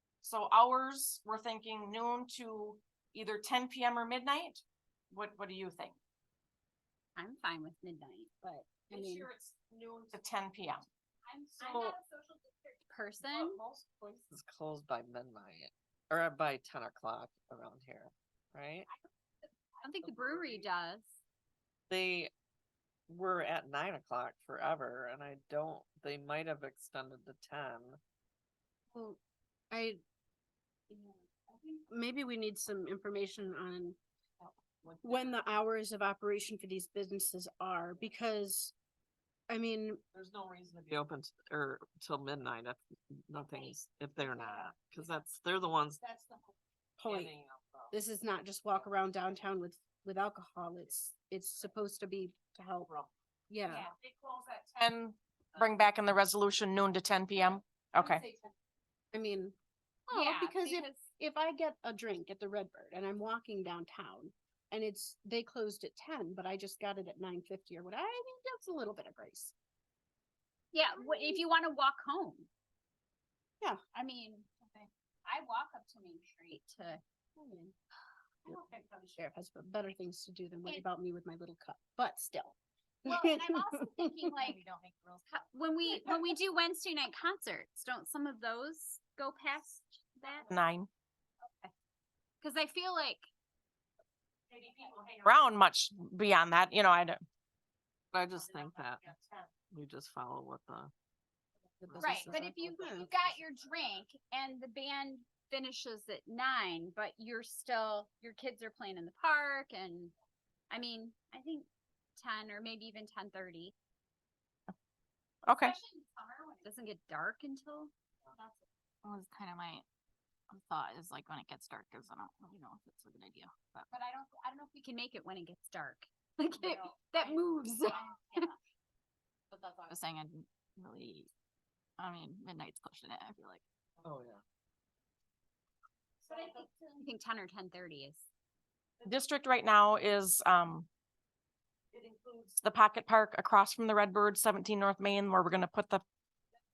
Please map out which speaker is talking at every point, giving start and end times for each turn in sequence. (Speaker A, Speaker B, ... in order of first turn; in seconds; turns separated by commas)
Speaker A: 0.2-6.0, Speaker B: 7.2-9.3, Speaker A: 8.9-10.9, Speaker B: 11.2-13.6, Speaker A: 11.6-12.0, Speaker A: 13.2-14.2, Speaker C: 14.3-18.9, Speaker B: 19.8-21.1, Speaker C: 21.9-22.3, Speaker C: 23.1-28.0, Speaker D: 28.9-29.2, Speaker D: 29.7-30.0, Speaker D: 31.9-34.0, Speaker D: 35.0-38.7, Speaker D: 39.5-40.0, Speaker C: 40.1-46.2, Speaker D: 47.0-47.3, Speaker C: 47.1-47.9, Speaker D: 47.9-52.9, Speaker D: 53.5-53.9, Speaker A: 53.9-58.3, Speaker D: 59.1-59.5, Speaker D: 60.1-69.5, Speaker B: 60.1-61.0, Speaker B: 70.7-72.5, Speaker D: 71.0-71.4, Speaker B: 73.9-77.0, Speaker D: 77.4-77.7, Speaker B: 78.5-79.1, Speaker D: 79.2-84.3, Speaker B: 83.0-84.7, Speaker E: 84.7-85.2, Speaker B: 85.3-90.5, Speaker A: 90.5-90.9, Speaker B: 91.5-91.7, Speaker B: 92.4-93.2, Speaker A: 94.5-97.2, Speaker C: 98.1-99.1, Speaker A: 98.5-99.5, Speaker C: 99.7-100.9, Speaker D: 101.8-103.3, Speaker B: 102.0-110.1, Speaker B: 110.7-113.8, Speaker A: 115.5-115.8, Speaker B: 115.6-118.5, Speaker E: 119.0-119.8, Speaker E: 120.5-123.9, Speaker B: 123.9-128.5, Speaker E: 129.5-131.3, Speaker E: 132.0-133.6, Speaker C: 134.0-134.4, Speaker B: 136.3-138.2, Speaker A: 139.0-140.9, Speaker A: 141.9-146.0